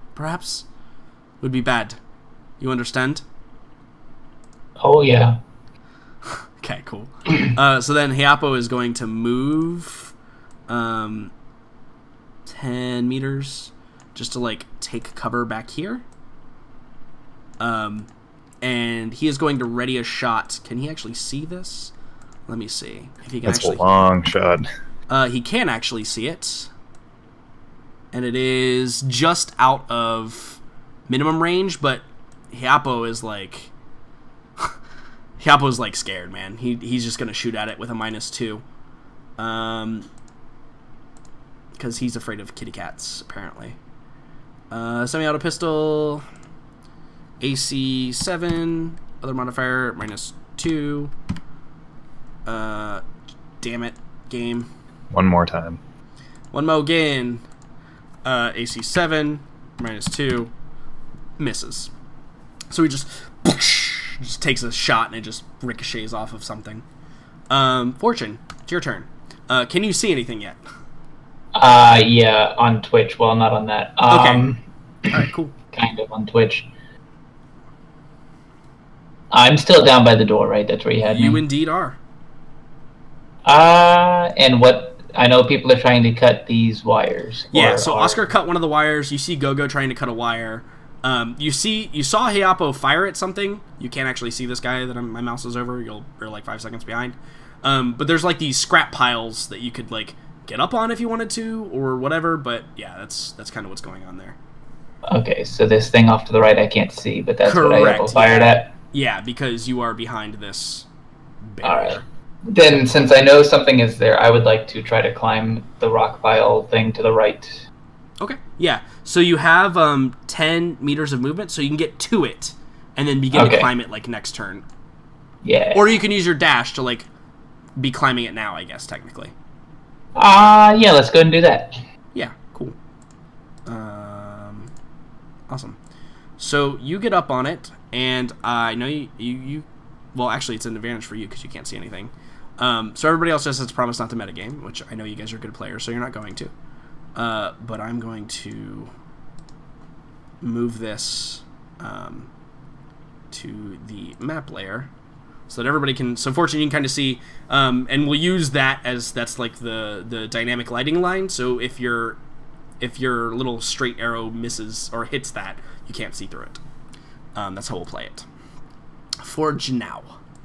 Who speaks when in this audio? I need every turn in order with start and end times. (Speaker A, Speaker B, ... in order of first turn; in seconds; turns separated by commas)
Speaker A: 0.1-0.7, Speaker A: 1.4-2.0, Speaker A: 2.6-3.2, Speaker B: 4.8-5.4, Speaker A: 6.3-10.1, Speaker A: 10.7-11.3, Speaker A: 12.4-16.0, Speaker A: 17.6-18.1, Speaker A: 18.6-21.9, Speaker A: 22.5-23.8, Speaker C: 23.4-24.6, Speaker A: 25.1-26.7, Speaker A: 28.1-33.7, Speaker A: 35.4-38.6, Speaker A: 39.4-40.1, Speaker A: 41.8-43.8, Speaker A: 44.7-46.2, Speaker A: 47.4-51.1, Speaker A: 52.5-53.0, Speaker A: 53.6-54.7, Speaker C: 55.1-55.8, Speaker A: 56.5-57.4, Speaker A: 58.2-60.5, Speaker A: 61.4-61.9, Speaker A: 62.7-66.8, Speaker A: 67.5-70.6, Speaker B: 71.5-75.2, Speaker A: 74.1-74.5, Speaker A: 75.1-75.5, Speaker B: 75.7-76.7, Speaker B: 79.3-81.4, Speaker A: 81.1-82.0, Speaker B: 83.4-88.3, Speaker A: 87.5-104.4, Speaker B: 105.0-108.7, Speaker A: 107.4-110.8, Speaker A: 111.5-112.0, Speaker B: 111.6-117.6, Speaker A: 118.2-124.6, Speaker B: 123.3-123.7, Speaker B: 125.4-125.9, Speaker A: 125.7-127.1, Speaker A: 127.8-129.3, Speaker B: 130.1-131.8, Speaker A: 132.1-132.7, Speaker A: 133.7-134.7, Speaker A: 135.5-135.8, Speaker A: 136.4-146.5, Speaker A: 147.1-148.9, Speaker A: 150.4-152.3, Speaker A: 153.3-154.9, Speaker A: 155.5-162.2, Speaker A: 162.8-166.6, Speaker A: 167.3-168.2, Speaker A: 169.2-170.2